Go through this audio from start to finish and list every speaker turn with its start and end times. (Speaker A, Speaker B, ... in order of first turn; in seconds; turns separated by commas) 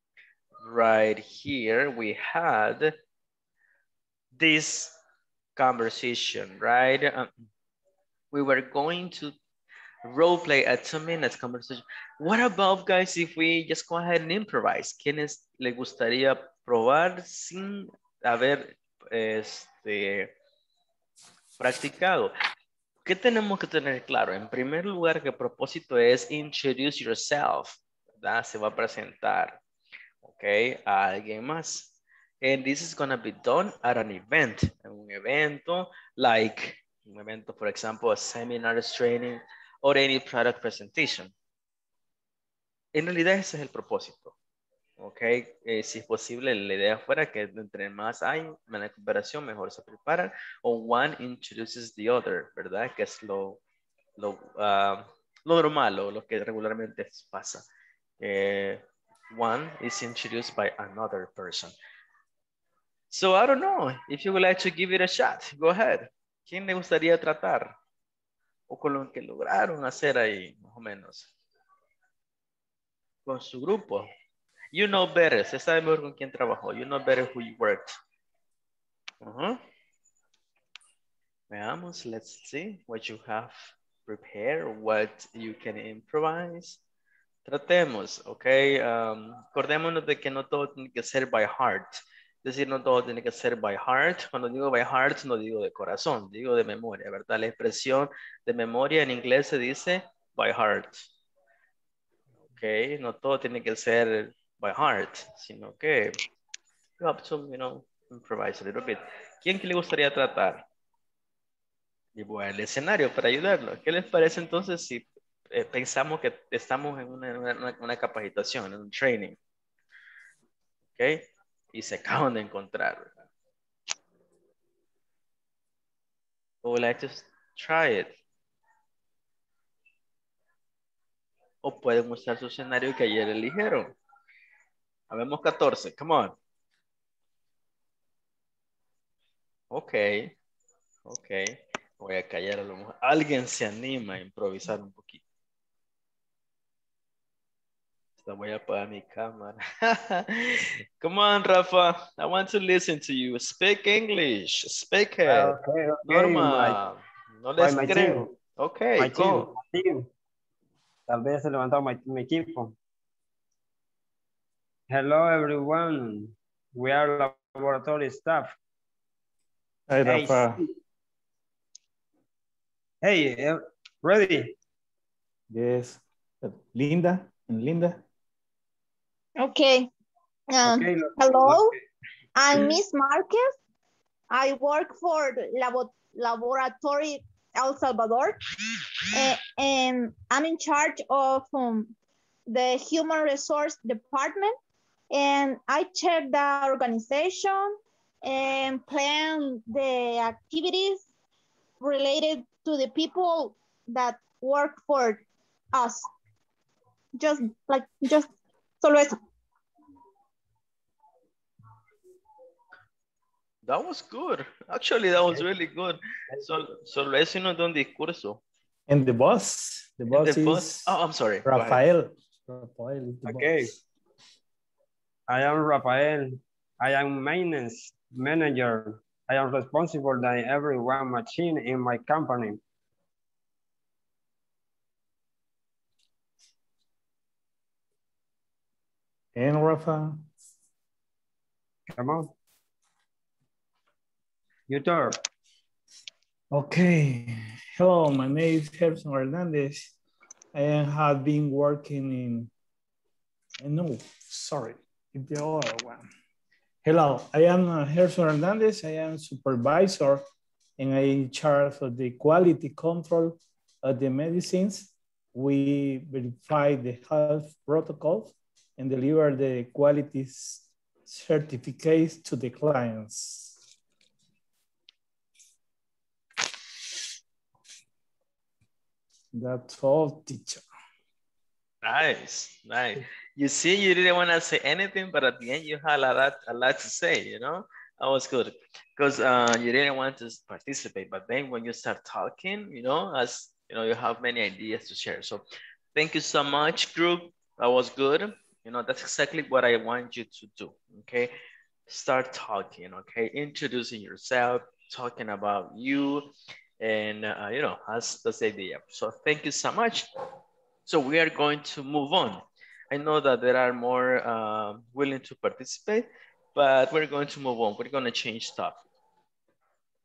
Speaker A: 0.6-2.9, Speaker A: 4.3-5.0, Speaker A: 5.5-7.3, Speaker A: 8.3-9.3, Speaker A: 10.0-20.3, Speaker A: 21.6-22.3, Speaker A: 23.0-29.6, Speaker A: 30.2-41.3, Speaker A: 42.9-44.3, Speaker A: 45.0-53.6, Speaker A: 54.2-57.6, Speaker A: 58.2-61.7, Speaker A: 63.1-67.7, Speaker A: 68.7-71.3, Speaker A: 73.2-74.1, Speaker A: 74.7-77.9, Speaker A: 79.2-79.6, Speaker A: 81.5-86.8, Speaker A: 87.4-101.1, Speaker A: 102.5-106.2, Speaker A: 107.0-110.6, Speaker A: 112.2-119.4, Speaker A: 121.0-123.2, Speaker A: 126.6-128.1, Speaker A: 131.6-133.9, Speaker A: 135.1-136.3, Speaker A: 139.7-140.3, Speaker A: 141.1-145.2, Speaker A: 148.2-159.5, Speaker B: 155.2-156.8, Speaker B: 157.6-158.3, Speaker B: 159.0-160.1, Speaker B: 161.1-162.7, Speaker B: 164.9-168.5, Speaker C: 169.9-170.6, Speaker B: 170.0-170.6, Speaker B: 173.0-174.5, Speaker C: 175.5-178.0, Speaker D: 179.4-179.9, Speaker D: 180.5-181.7, Speaker B: 180.6-181.7, Speaker D: 182.3-183.6, Speaker B: 182.5-182.8, Speaker D: 184.3-188.4, Speaker D: 189.1-191.9, Speaker D: 192.5-194.6, Speaker D: 195.1-201.0, Speaker D: 201.8-206.1, Speaker D: 207.2-209.2, Speaker A: 213.6-218.4, Speaker C: 218.9-223.7, Speaker A: 220.1-221.8, Speaker B: 223.2-223.7, Speaker B: 225.3-232.6, Speaker C: 239.3-240.2, Speaker B: 241.9-242.3, Speaker B: 244.7-245.2, Speaker C: 246.5-249.9, Speaker C: 250.5-252.5, Speaker C: 253.6-256.0, Speaker C: 256.8-260.2, Speaker C: 260.8-273.5, Speaker C: 279.3-280.6, Speaker A: 281.8-295.4, Speaker A: 295.9-301.3, Speaker A: 301.9-306.3, Speaker A: 306.8-310.1, Speaker A: 310.9-318.8